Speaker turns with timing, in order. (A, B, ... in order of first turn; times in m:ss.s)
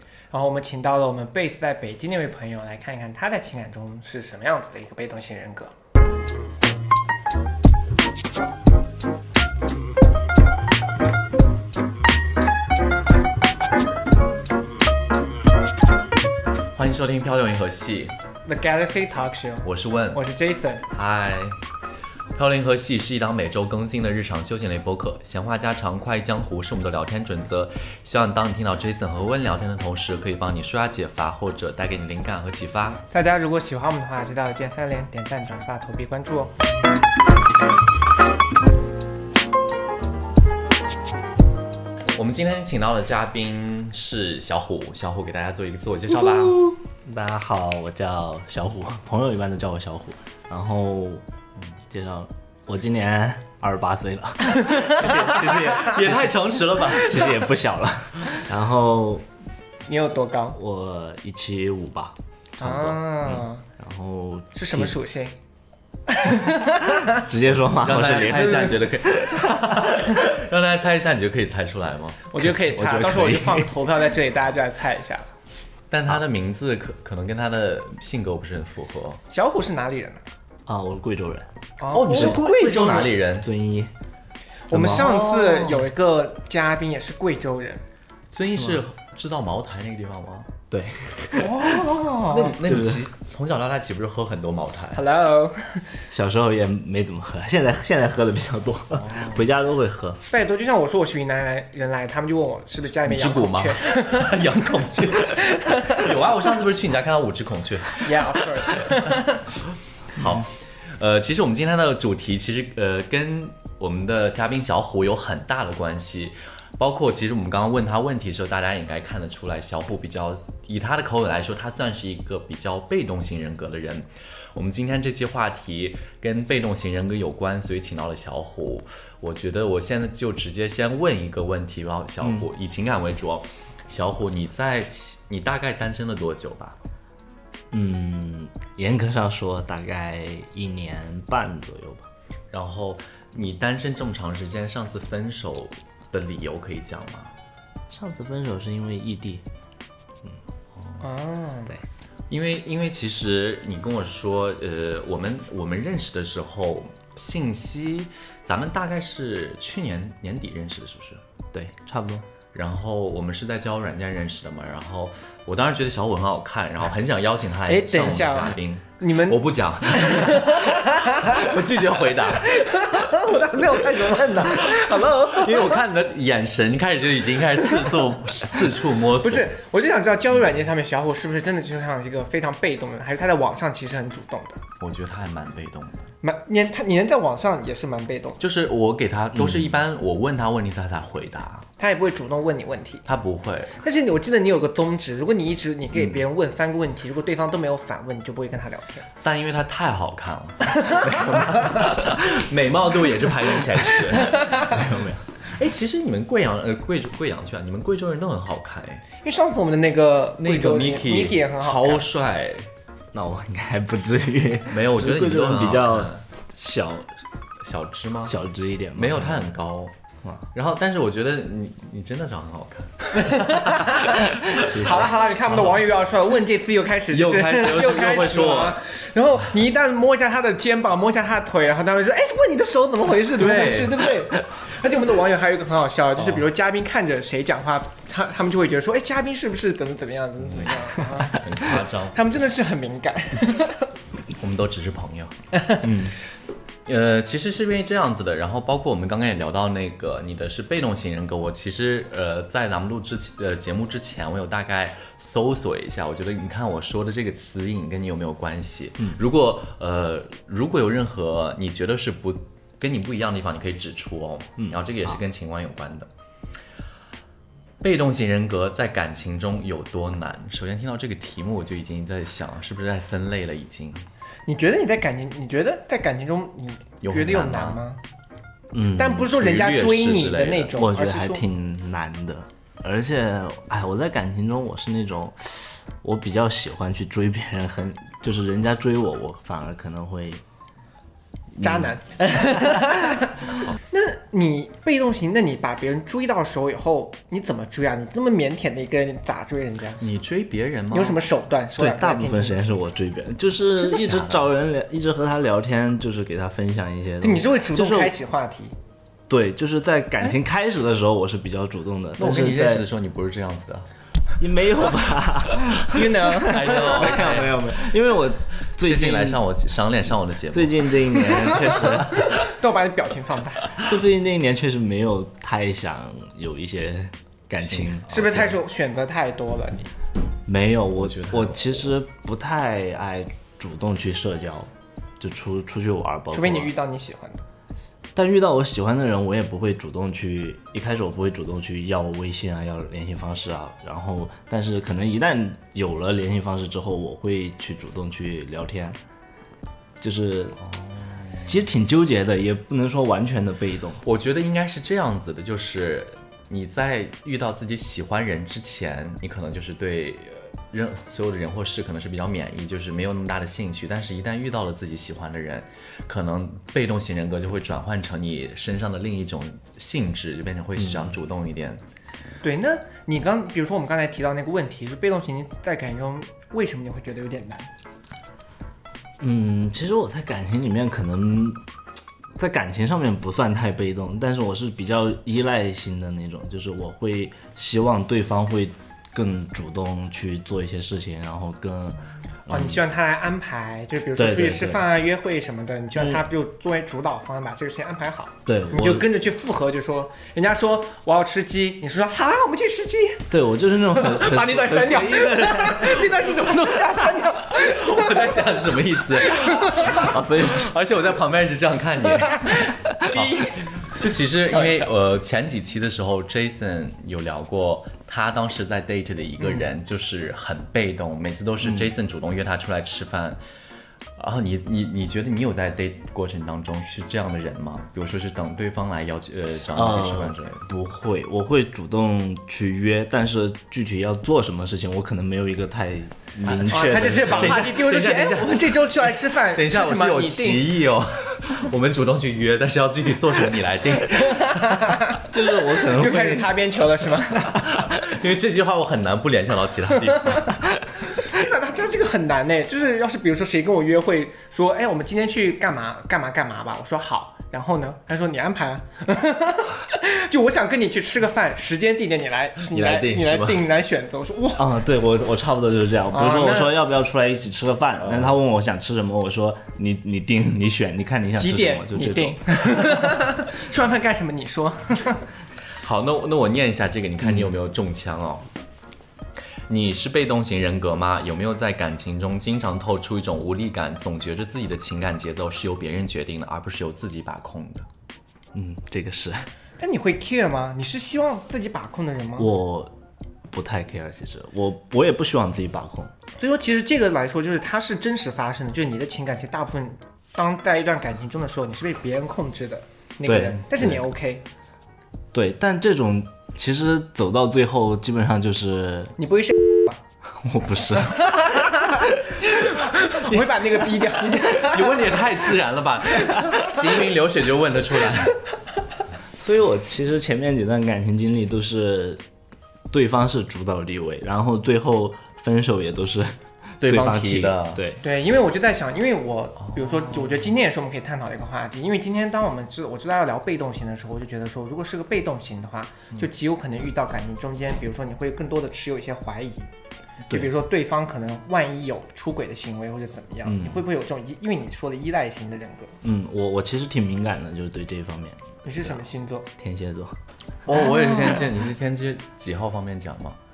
0:00.3-0:05.7 A
0:16.8-0:18.1 B
0:18.5-0:20.9 A
0:19.6-0:20.2 B
0:20.9-0:21.6 B
0:22.4-0:33.0 B
0:33.1-0:36.5 A
0:42.2-0:46.7 B
0:46.3-0:51.2 C
0:51.9-0:59.2 C
0:54.6-0:55.3 A
0:55.2-0:57.4 B
0:59.9-1:00.6 A
1:00.5-1:05.0 C
1:02.6-1:03.6 A
1:04.6-1:05.4 A
1:06.1-1:07.3 A
1:07.1-1:10.1 C
1:07.5-1:12.2 B
1:08.3-1:08.7 A
1:12.3-1:15.3 A
1:12.4-1:14.0 C
1:15.9-1:19.2 B
1:19.3-1:20.2 A
1:20.7-1:21.5 C
1:21.8-1:23.1 A
1:21.9-1:23.5 B
1:22.1-1:23.9 C
1:24.7-1:27.8 A
1:24.7-1:25.9 C
1:28.3-1:30.5 B
1:28.6-1:28.8 C
1:30.7-1:32.0 C
1:31.4-1:32.6 A
1:32.2-1:35.0 B
1:32.6-1:33.1 C
1:35.0-1:36.0 A
1:36.1-1:40.2 C
1:38.9-1:39.4 B
1:40.3-1:44.4 A
1:43.1-1:49.0 B
1:45.5-1:46.0 A
1:48.0-1:49.4 A
1:50.2-2:16.8 B
1:50.2-1:50.4 C
2:12.2-2:12.5 C
2:17.7-2:22.1 C
2:22.5-2:27.3 B
2:27.9-2:29.5 C
2:31.0-2:31.8 A
2:32.3-2:41.2 B
2:41.5-2:42.2 C
2:42.5-2:53.6 B
2:47.7-2:51.6 A
2:52.4-2:55.8 A
2:54.1-2:59.5 B
2:57.6-2:58.0 A
2:58.5-3:04.6 A
3:04.8-3:06.0 B
3:06.2-3:08.4 A
3:08.4-3:11.7 B
3:09.3-3:09.7 C
3:11.8-3:13.1 A
3:13.1-3:13.8 B
3:13.8-3:19.1 A
3:19.2-3:24.7 B
3:20.8-3:21.7 A
3:24.6-3:25.2 C
3:25.4-3:29.0 B
3:29.2-3:32.0 A
3:30.4-3:32.7 B
3:33.1-3:37.2 C
3:34.7-3:36.2 B
3:37.6-3:38.4 B
3:38.2-3:39.5 C
3:39.0-3:39.9 B
3:40.5-3:45.8 B
3:43.2-4:01.4 A
3:44.5-3:45.1 C
3:47.1-3:48.8 B
3:53.3-3:54.1 B
4:01.3-4:02.3 B
4:02.1-4:03.9 A
4:04.4-4:05.3 B
4:05.5-4:05.8 A
4:05.8-4:06.2 C
4:06.8-4:26.1 B
4:24.6-4:25.2 C
4:27.8-4:34.0 B
4:34.4-4:38.0 A
4:37.0-4:37.8 B
4:38.7-4:39.3 C
4:39.0-4:41.4 A
4:39.2-4:40.7 B
4:40.8-4:50.4 C
4:51.6-5:00.0 A
5:00.0-5:01.2 B
5:00.9-5:02.6 A
5:01.8-5:08.1 C
5:03.8-5:04.5 B
5:07.2-5:08.7 A
5:09.3-5:12.8 C
5:12.2-5:13.9 B
5:14.4-5:19.4 C
5:15.9-5:17.4 A
5:16.4-5:17.9 B
5:18.8-5:22.4 B
5:20.5-5:22.3 C
5:21.2-5:23.8 A
5:23.7-5:28.6 C
5:27.6-5:28.3 B
5:28.1-5:29.9 A
5:30.4-5:36.7 C
5:31.0-5:31.9 B
5:36.3-5:37.4 A
5:38.1-5:49.0 C
5:50.0-5:50.6 C
5:50.7-5:51.6 B
5:51.4-5:54.0 C
5:54.0-6:11.8 B
6:10.8-6:11.2 C
6:12.4-6:17.7 A
6:19.2-6:21.6 C
6:22.4-6:32.8 C
6:32.5-6:43.3 A
6:34.2-6:34.8 C
6:35.9-6:36.2 C
6:38.4-6:39.1 C
6:43.3-6:47.0 C
6:43.9-6:50.1 A
6:47.5-7:03.4 B
6:49.9-6:50.7 C
6:52.1-6:53.7 A
6:54.5-6:54.9 A
6:59.4-6:59.7 A
7:01.6-7:01.9 C
7:04.2-7:10.6 B
7:09.7-7:17.7 C
7:16.4-7:25.0 B
7:16.7-7:20.8 A
7:24.2-7:27.6 A
7:25.2-7:26.5 C
7:27.3-7:27.9 C
7:27.7-7:30.6 B
7:30.0-7:30.4 A
7:31.1-7:44.8 A
7:42.6-7:43.6 B
7:44.5-7:52.8 C
7:46.1-7:46.8 A
7:48.0-7:48.3 B
7:51.4-7:55.2 A
7:55.8-7:58.4 B
7:57.2-7:57.5 C
7:59.7-8:07.8 B
8:08.5-8:09.5 C
8:09.8-8:12.5 A
8:12.4-8:12.9 C
8:13.5-8:16.1 C
8:16.4-8:24.4 A
8:23.2-8:24.0 C
8:25.3-8:29.2 C
8:29.2-8:30.0 A
8:30.3-8:32.2 C
8:31.1-8:35.4 A
8:34.1-8:38.4 B
8:36.2-8:36.9 A
8:39.4-8:42.2 C
8:42.9-8:48.0 C
8:46.8-8:47.8 B
8:48.0-8:59.7 A
8:49.6-8:50.0 B
9:00.3-9:06.0 A
9:03.4-9:03.8 C
9:06.0-9:09.0 C
9:08.6-9:09.5 A
9:09.6-9:10.2 C
9:10.6-9:13.4 B
9:10.7-9:11.5 A